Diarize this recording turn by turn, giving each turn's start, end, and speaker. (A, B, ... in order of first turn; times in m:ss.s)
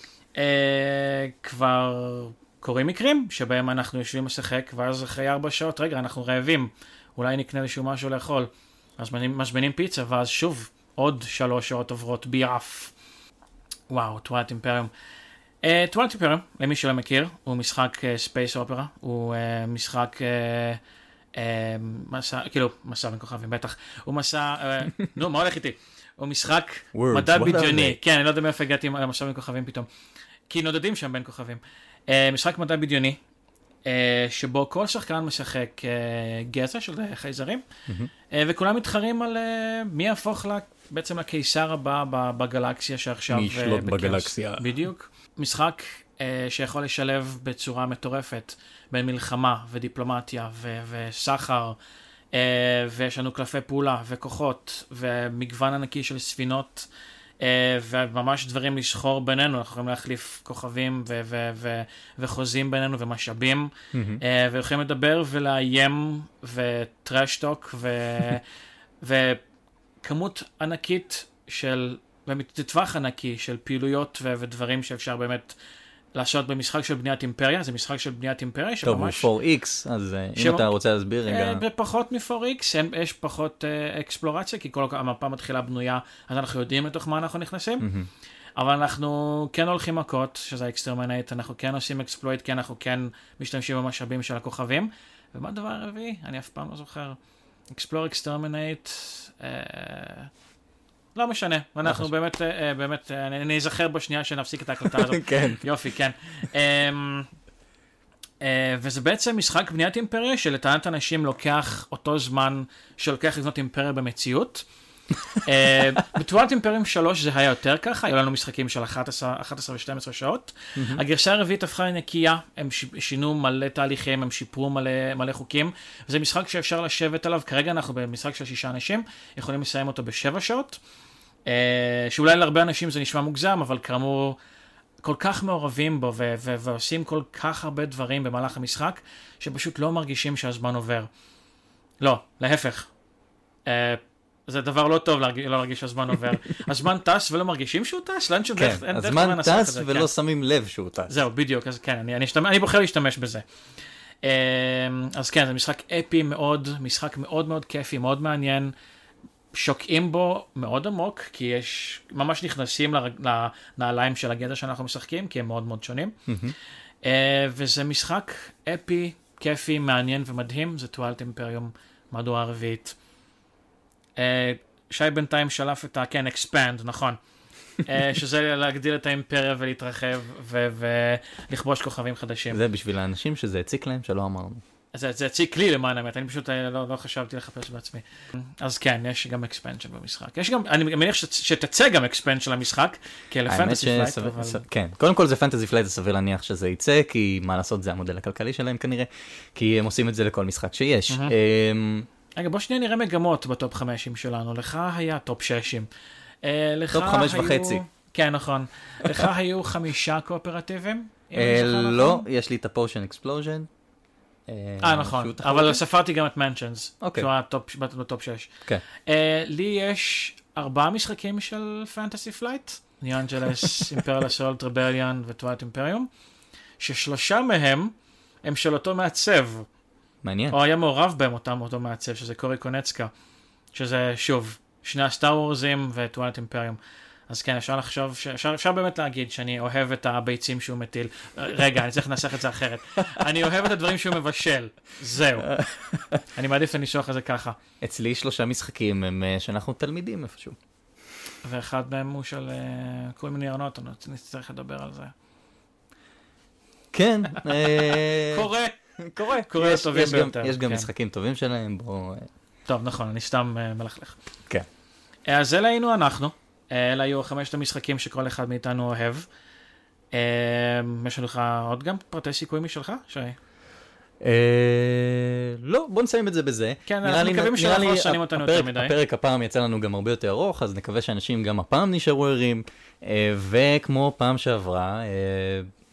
0:00.3-0:12.9 A
0:13.9-0:14.9 A
0:15.6-0:20.8 A
0:21.3-0:29.9 A
0:26.9-0:28.0 B
0:30.5-0:33.2 A
0:33.8-0:37.6 A
0:38.3-0:51.8 A
0:43.3-0:44.7 B
0:52.3-0:56.9 A
0:57.4-1:08.4 A
1:03.9-1:04.2 B
1:09.0-1:09.4 A
1:10.0-1:15.6 A
1:16.1-1:19.3 A
1:18.8-1:21.6 B
1:20.4-1:20.7 A
1:21.2-1:27.9 A
1:27.8-1:28.1 B
1:28.6-1:37.2 A
1:37.7-1:40.3 A
1:41.1-1:47.3 A
1:41.8-1:42.1 B
1:44.9-1:45.6 B
1:48.4-1:54.6 A
1:55.4-2:10.8 A
2:00.8-2:01.0 B
2:11.5-2:14.4 A
2:15.0-2:21.1 A
2:22.0-2:22.9 A
2:23.6-2:30.1 A
2:28.6-2:31.2 B
2:31.1-2:33.4 A
2:34.2-2:38.7 A
2:39.5-2:46.2 A
2:46.3-2:46.5 B
2:47.0-2:53.0 A
2:54.2-2:57.2 A
2:57.8-3:02.6 A
3:02.5-3:04.6 B
3:04.9-3:14.6 A
3:13.5-3:22.1 B
3:21.1-3:21.3 A
3:22.4-3:25.9 A
3:26.4-3:32.2 A
3:26.9-3:27.8 B
3:31.3-3:33.7 B
3:34.5-3:35.8 B
3:34.8-3:46.1 A
3:37.0-3:37.3 B
3:46.8-3:47.9 A
3:48.4-3:49.7 A
3:50.2-3:50.6 B
3:50.5-3:53.1 A
3:53.7-4:05.5 A
4:05.4-4:06.2 B
4:06.3-4:07.6 A
4:07.8-4:10.6 B
4:11.4-4:15.1 A
4:16.9-4:22.3 B
4:17.3-4:20.9 A
4:22.7-4:24.2 A
4:25.3-4:29.3 A
4:30.1-4:33.4 A
4:34.2-4:45.7 B
4:36.8-4:39.0 A